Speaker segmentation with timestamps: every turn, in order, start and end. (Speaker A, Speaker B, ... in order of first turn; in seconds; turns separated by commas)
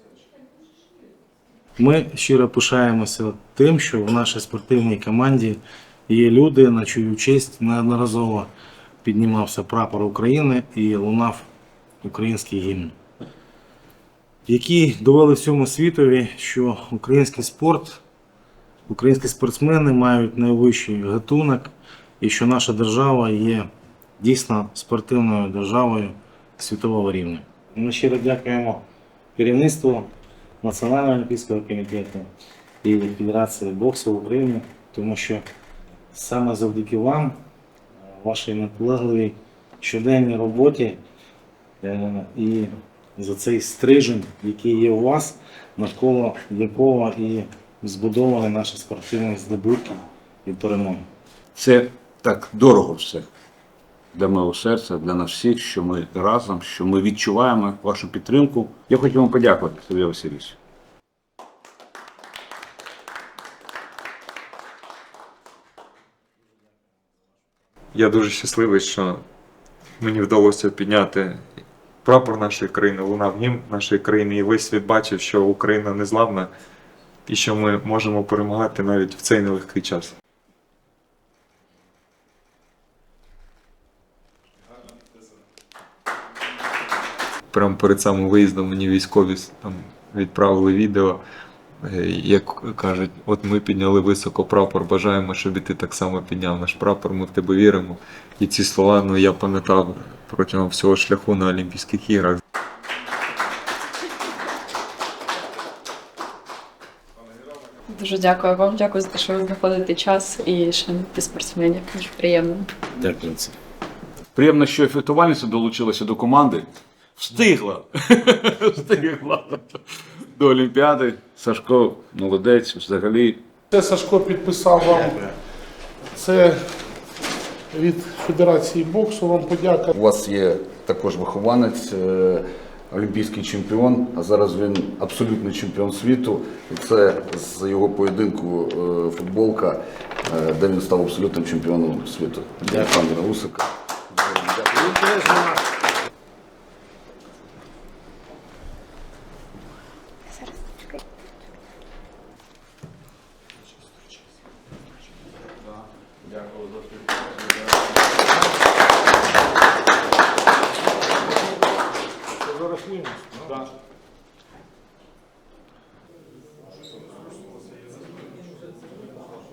Speaker A: 1.8-8.5, Speaker A: 9.0-11.5, Speaker A: 12.0-12.9, Speaker A: 14.5-18.0, Speaker A: 18.9-28.9, Speaker A: 29.4-30.1, Speaker A: 30.6-32.3, Speaker A: 32.8-35.4, Speaker A: 36.1-37.4, Speaker A: 38.1-41.0, Speaker A: 41.8-51.1, Speaker B: 51.5-53.3, Speaker B: 54.1-60.6, Speaker C: 67.9-69.2, Speaker C: 70.0-71.4, Speaker C: 72.0-76.5, Speaker C: 77.3-80.1, Speaker C: 87.5-91.2, Speaker C: 91.8-102.4, Speaker D: 107.9-112.7, Speaker A: 113.0-113.6, Speaker B: 114.3-123.4, Speaker E: 123.7-125.3, Speaker E: 126.1-126.8, Speaker E: 127.7-129.9, Speaker F: 129.9-145.2, Speaker A: 162.7-163.1